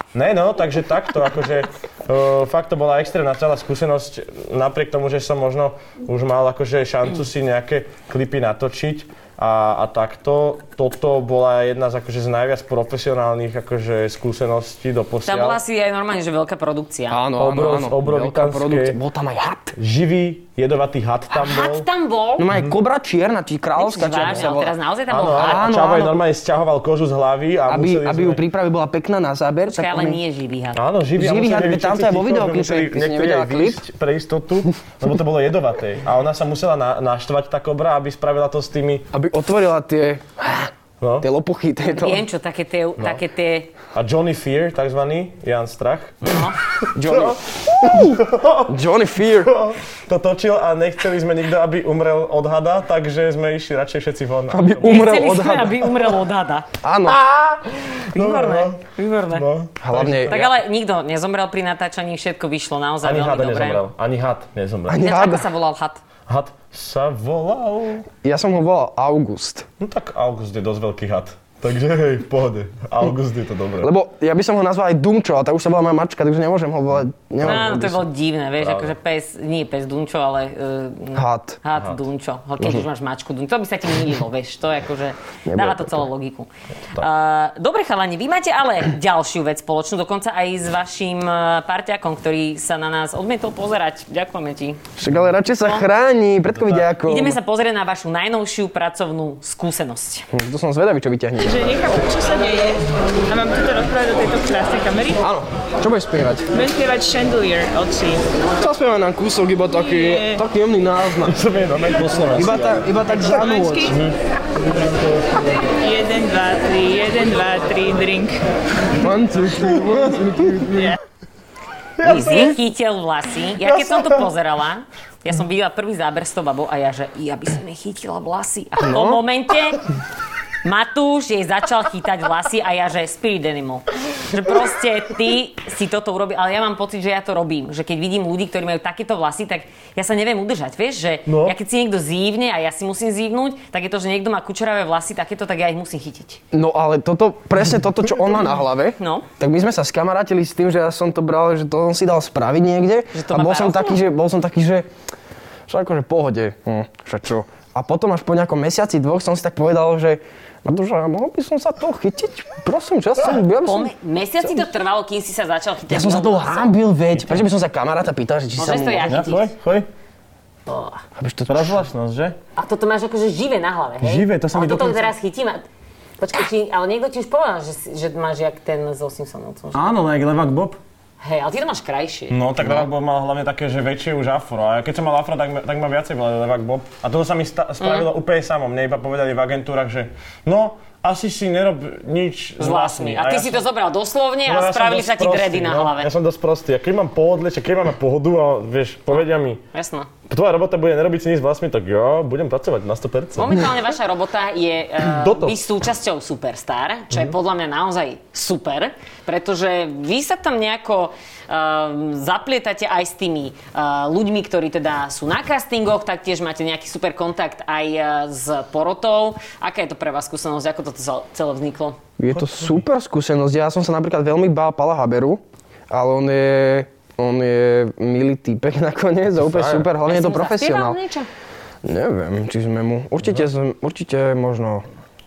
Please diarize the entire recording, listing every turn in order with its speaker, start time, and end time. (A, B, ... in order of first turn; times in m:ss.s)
0:00.1-0:15.6 A
0:15.3-0:17.2 B
0:17.1-0:19.8 C
0:17.4-0:19.0 A
0:19.8-0:21.9 A
0:21.3-0:22.5 B
0:22.4-0:24.8 C
0:23.8-0:25.8 B
0:25.1-0:28.4 A
0:25.4-0:26.2 C
0:27.7-0:30.2 C
0:29.7-0:30.8 B
0:30.8-0:39.1 A
0:31.2-0:33.8 C
0:39.1-0:42.3 C
0:41.0-0:41.3 A
0:41.8-0:43.7 B
0:43.9-0:55.2 A
0:46.2-0:46.6 B
0:46.9-0:49.5 C
0:54.5-0:55.9 C
0:54.8-0:56.7 B
0:56.8-0:57.2 C
0:57.1-1:00.6 A
0:57.9-0:59.5 B
0:59.8-1:00.4 C
1:00.3-1:03.8 B
1:03.0-1:05.1 A
1:04.9-1:05.5 C
1:05.0-1:06.0 B
1:06.3-1:08.1 A
1:08.2-1:09.7 C
1:09.8-1:13.9 A
1:13.8-1:18.0 C
1:17.4-1:17.9 A
1:17.4-1:34.8 B
1:18.6-1:18.9 A
1:21.2-1:21.6 C
1:21.8-1:22.0 A
1:22.6-1:22.9 C
1:25.5-1:26.1 C
1:35.0-1:37.4 C
1:36.5-1:36.9 A
1:37.0-1:40.3 B
1:40.3-1:41.7 C
1:41.4-1:45.2 D
1:45.2-1:46.5 C
1:46.5-1:48.2 D
1:48.5-1:51.4 C
1:49.9-1:50.4 D
1:51.2-1:52.9 A
1:52.3-1:54.0 C
1:53.1-1:54.0 D
1:53.8-1:55.5 A
1:55.7-1:58.4 D
1:59.0-2:01.0 C
2:02.0-2:02.6 A
2:02.0-2:09.8 B
2:02.0-2:02.5 C
2:03.6-2:04.3 A
2:08.8-2:09.2 C
2:10.6-2:26.4 B
2:21.3-2:21.6 A
2:26.5-2:34.9 C
2:29.0-2:29.3 B
2:33.1-2:34.0 B
2:35.7-2:43.9 C
2:43.6-2:46.8 B
2:45.9-2:49.3 C
2:48.6-2:49.5 B
2:49.1-2:49.9 A
2:50.7-2:51.0 B
2:51.2-2:51.8 C
2:51.5-2:52.4 A
2:52.6-2:55.6 B
2:54.0-2:55.1 A
2:56.2-2:59.9 B
2:59.7-3:00.8 A
3:01.2-3:02.4 B
3:02.3-3:13.6 A
3:07.8-3:08.1 B
3:12.6-3:16.1 B
3:14.5-3:19.6 A
3:19.7-3:20.1 B
3:20.3-3:23.7 A
3:23.4-3:42.0 B
3:25.1-3:25.6 A
3:42.2-3:51.0 C
3:42.4-3:42.7 A
3:49.4-3:49.9 A
3:50.0-3:51.3 B
3:51.8-3:54.9 C